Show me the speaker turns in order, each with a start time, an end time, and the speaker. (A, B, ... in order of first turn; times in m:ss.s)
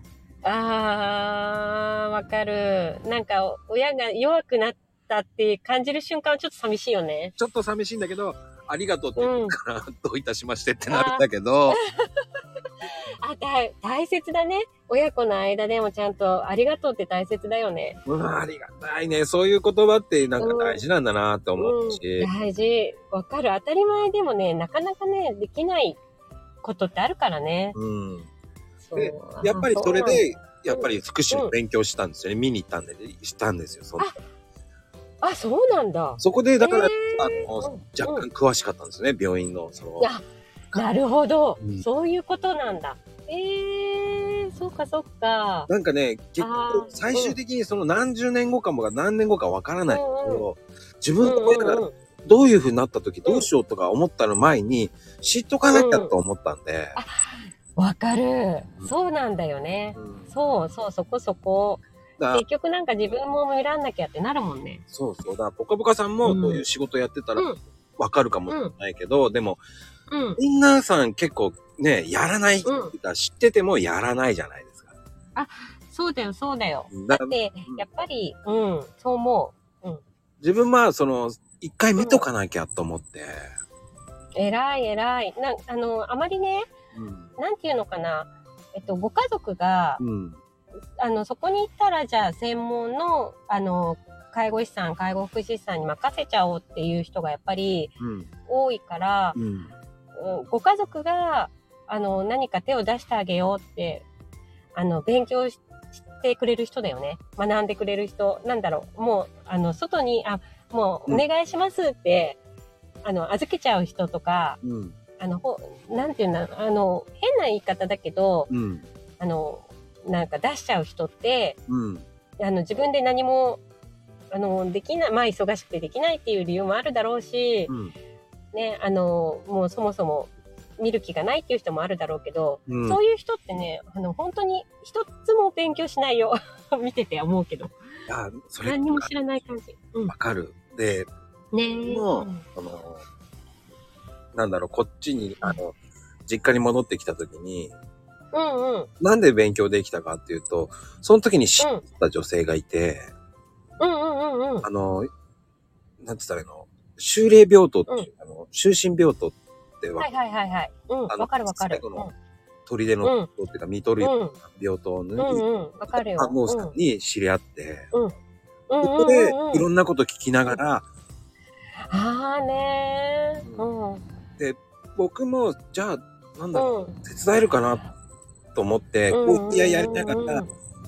0:00.4-0:07.3 A
0:07.4-0:11.8 B
0:09.2-0:09.6 A
0:10.9-0:12.2 A
0:12.8-0:18.0 A
0:18.0-0:22.3 B
0:20.4-0:20.8 A
0:21.6-0:26.0 A
0:26.6-0:27.8 A
0:27.7-0:28.3 B
0:28.8-0:31.5 A
0:28.9-0:34.1 B
0:35.2-0:38.3 A
0:36.2-0:40.1 B
0:40.0-0:45.7 A
0:45.7-0:57.0 B
0:46.4-0:47.4 A
0:49.9-0:50.5 A
0:51.2-0:51.9 A
0:55.7-0:56.1 A
0:56.9-1:04.8 A
0:59.9-1:00.3 B
1:02.2-1:02.4 B
1:04.9-1:09.6 B
1:06.2-1:06.6 A
1:08.5-1:08.7 A
1:10.1-1:10.4 A
1:10.4-1:14.9 B
1:12.6-1:12.9 A
1:15.4-1:20.0 A
1:16.9-1:17.8 B
1:20.4-1:23.5 B
1:22.0-1:22.2 A
1:24.3-1:26.7 A
1:26.9-1:27.3 B
1:27.4-1:30.0 A
1:30.0-1:30.4 B
1:31.0-1:39.4 A
1:38.0-1:38.3 B
1:39.4-1:39.7 B
1:40.2-1:44.0 A
1:44.7-1:52.4 A
1:53.0-1:54.6 A
1:54.6-1:55.0 B
1:55.2-1:58.5 A
1:58.5-1:58.8 B
1:59.2-2:01.6 A
2:01.7-2:02.0 B
2:02.4-2:03.6 A
2:04.3-2:07.7 A
2:08.5-2:17.7 A
2:12.7-2:13.0 B
2:18.1-2:19.1 B
2:18.6-2:20.1 A
2:20.1-2:21.1 B
2:21.5-2:22.4 A
2:21.8-2:23.0 B
2:24.3-2:27.7 B
2:28.3-2:28.9 A
2:29.0-2:33.1 B
2:31.6-2:31.8 A
2:33.8-2:34.7 A
2:34.6-2:35.1 B
2:36.0-2:40.1 B
2:40.0-2:42.1 A
2:41.1-2:42.1 B
2:42.7-2:47.9 B
2:43.0-2:43.3 A
2:44.0-2:44.4 A
2:45.2-2:46.7 A
2:48.7-2:49.7 A
2:48.8-2:50.8 B
2:51.9-2:54.0 A
2:53.4-2:53.7 B
2:54.4-2:57.8 B
2:56.5-2:57.0 A
2:58.5-3:00.4 B
2:59.1-3:00.5 A